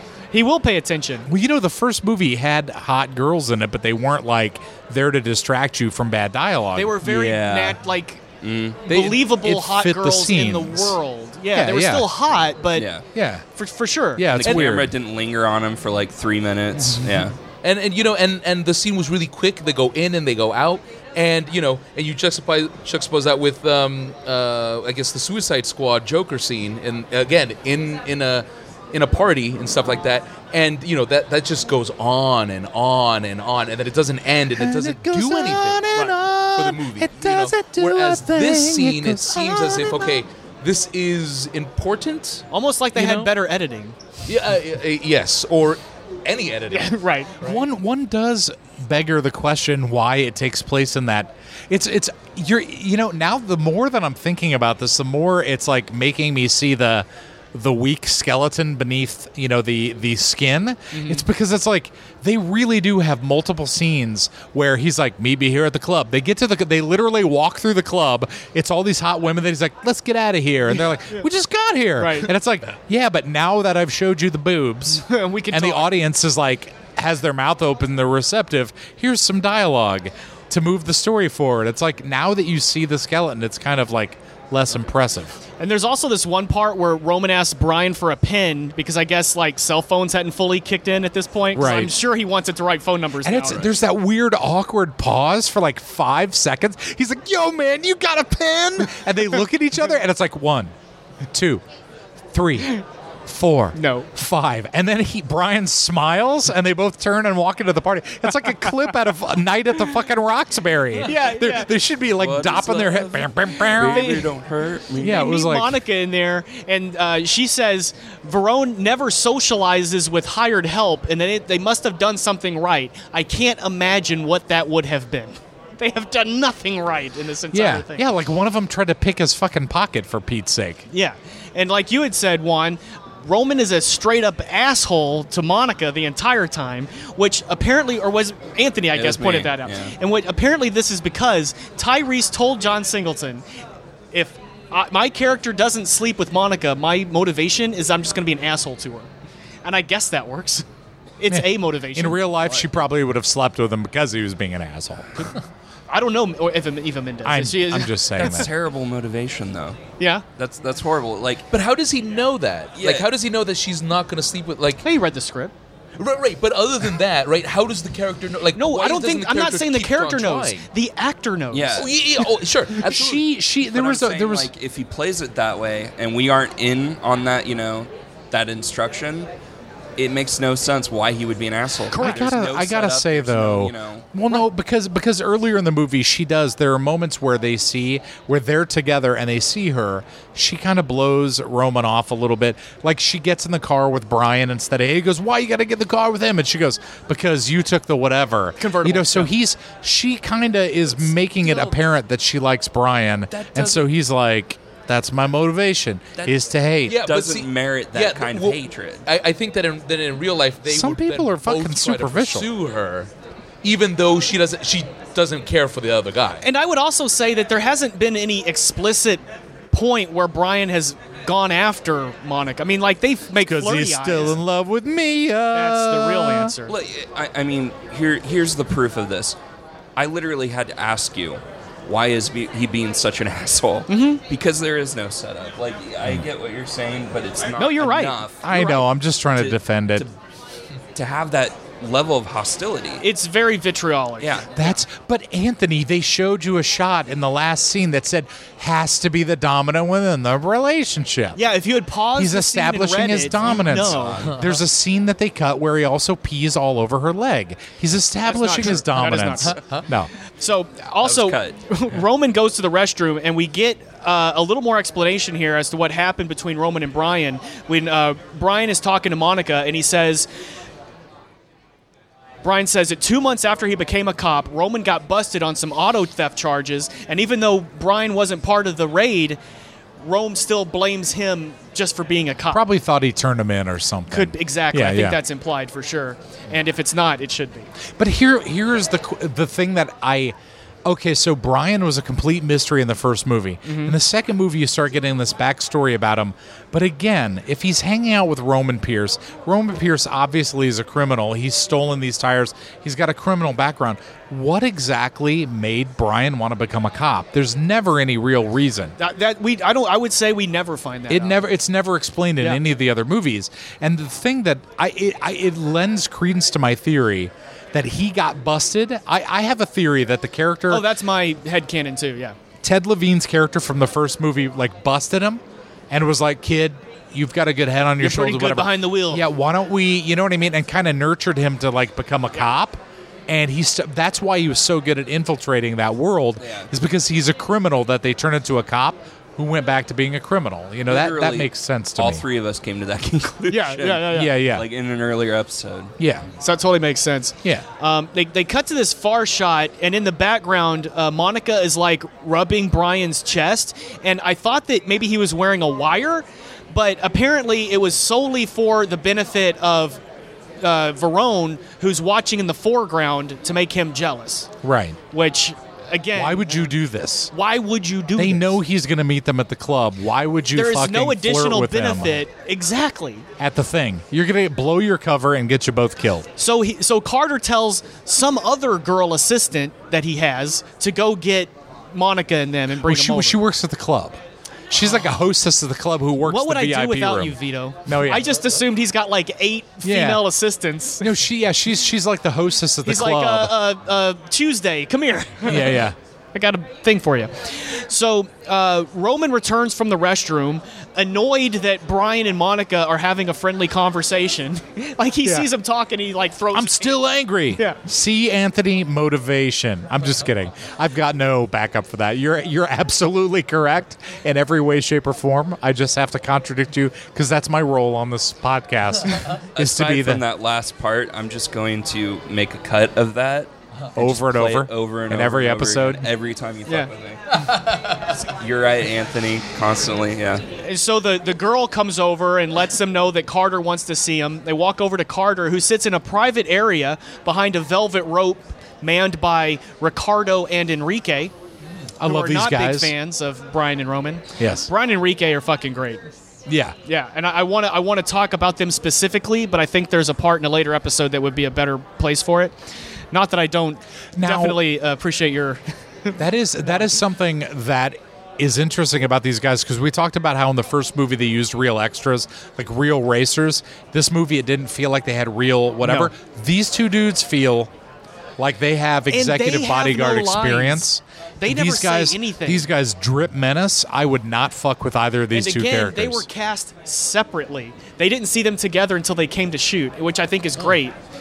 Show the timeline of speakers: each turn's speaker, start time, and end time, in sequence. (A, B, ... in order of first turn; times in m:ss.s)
0:00.3-0:01.3 A
0:01.3-0:07.0 B
0:06.7-0:08.2 A
0:07.0-0:07.8 C
0:08.4-0:08.9 C
0:08.9-0:12.9 A
0:08.9-0:09.2 D
0:09.1-0:11.0 B
0:11.5-0:12.1 B
0:12.7-0:13.1 C
0:13.1-0:13.4 B
0:13.6-0:14.3 A
0:14.2-0:15.0 B
0:14.3-0:17.4 C
0:14.4-0:14.9 D
0:17.6-0:42.5 D
0:34.6-0:40.2 B
0:42.5-0:44.0 A
0:43.0-0:43.3 B
0:44.3-0:47.6 D
0:46.7-0:47.5 A
0:47.4-1:25.4 B
1:00.9-1:01.3 A
1:12.0-1:12.3 A
1:15.0-1:16.0 A
1:25.6-1:33.8 A
1:31.6-1:31.9 B
1:33.2-1:40.7 B
1:41.3-1:41.6 B
1:42.3-1:54.3 B
1:43.8-1:44.1 A
1:51.0-1:51.7 A
1:52.2-1:55.3 C
1:53.8-1:54.3 A
1:55.0-1:55.8 B
1:55.0-2:08.0 A
2:07.5-2:10.9 B
2:10.9-2:23.4 A
2:18.9-2:20.0 C
2:24.1-2:29.1 A
2:29.6-2:30.6 A
2:31.2-2:32.3 A
2:31.3-2:35.3 B
2:35.9-2:38.4 A
2:37.2-2:38.5 B
2:38.2-2:39.8 C
2:40.0-2:40.2 A
2:40.4-2:41.5 C
2:41.5-2:44.8 D
2:42.8-2:43.1 C
2:44.8-2:45.5 A
2:46.0-2:50.7 D
2:48.6-2:51.9 A
2:51.5-2:51.9 C
2:51.8-2:53.2 D
2:52.8-2:54.5 B
2:53.7-2:59.3 C
3:00.0-3:04.1 C
3:01.9-3:02.3 A
3:01.9-3:27.0 B
3:18.6-3:19.3 A
3:23.3-3:23.8 D
3:26.9-3:33.1 D
3:27.0-3:29.0 C
3:30.7-3:32.5 B
3:33.6-3:36.4 D
3:36.4-3:44.4 A
3:43.4-3:46.5 B
3:45.5-3:46.7 A
3:46.7-3:49.4 C
3:50.0-3:58.7 C
3:53.9-3:54.2 A
3:57.6-3:58.8 A
3:58.4-4:00.1 B
3:59.4-4:00.2 C
4:01.0-4:03.0 C
4:03.0-4:04.4 A
4:04.2-4:04.8 C
4:04.6-4:11.4 B
4:11.4-4:14.4 A
4:12.1-4:20.1 B
4:13.4-4:14.5 C
4:18.2-4:19.6 A
4:19.4-4:19.9 D
4:20.4-4:30.3 A
4:21.0-4:21.6 C
4:32.4-4:39.4 A
4:40.0-4:42.6 A
4:42.5-4:45.2 B
4:44.1-4:47.7 A
4:48.0-5:09.0 B
4:53.6-4:54.0 A
5:09.0-5:11.4 A
5:11.1-5:20.9 B
5:20.7-5:22.4 A
5:22.6-5:42.2 B
5:28.0-5:29.2 A
5:36.4-5:36.7 C
5:40.9-5:46.0 C
5:43.5-5:44.4 A
5:44.1-5:44.7 B
5:46.0-5:46.3 B
5:46.4-6:00.0 A
6:00.6-6:04.5 A
6:04.6-6:05.0 B
6:05.1-6:06.7 A
6:06.2-6:07.3 B
6:07.3-6:08.6 A
6:08.2-6:12.3 B
6:10.6-6:13.3 A
6:13.4-6:16.3 B
6:16.4-6:23.4 A
6:22.8-6:24.2 B
6:24.7-6:28.3 B
6:26.2-6:31.1 A
6:29.8-6:30.2 B
6:31.0-6:33.6 B
6:32.8-6:47.0 A
6:35.4-6:36.0 B
6:46.5-7:00.2 B
6:59.6-7:07.4 C
7:04.0-7:06.1 B
7:07.3-7:08.2 D
7:08.1-7:10.4 C
7:10.6-7:21.3 A
7:22.0-7:22.9 B
7:22.0-7:26.0 A
7:24.4-7:24.7 B
7:26.5-7:26.8 B
7:26.8-7:32.6 A
7:33.1-7:36.2 A
7:34.2-7:34.6 B
7:36.2-7:47.7 B
7:45.8-7:46.1 A
7:48.4-7:56.3 B
7:49.1-7:50.9 A
7:51.4-7:52.7 A
7:55.3-8:01.0 A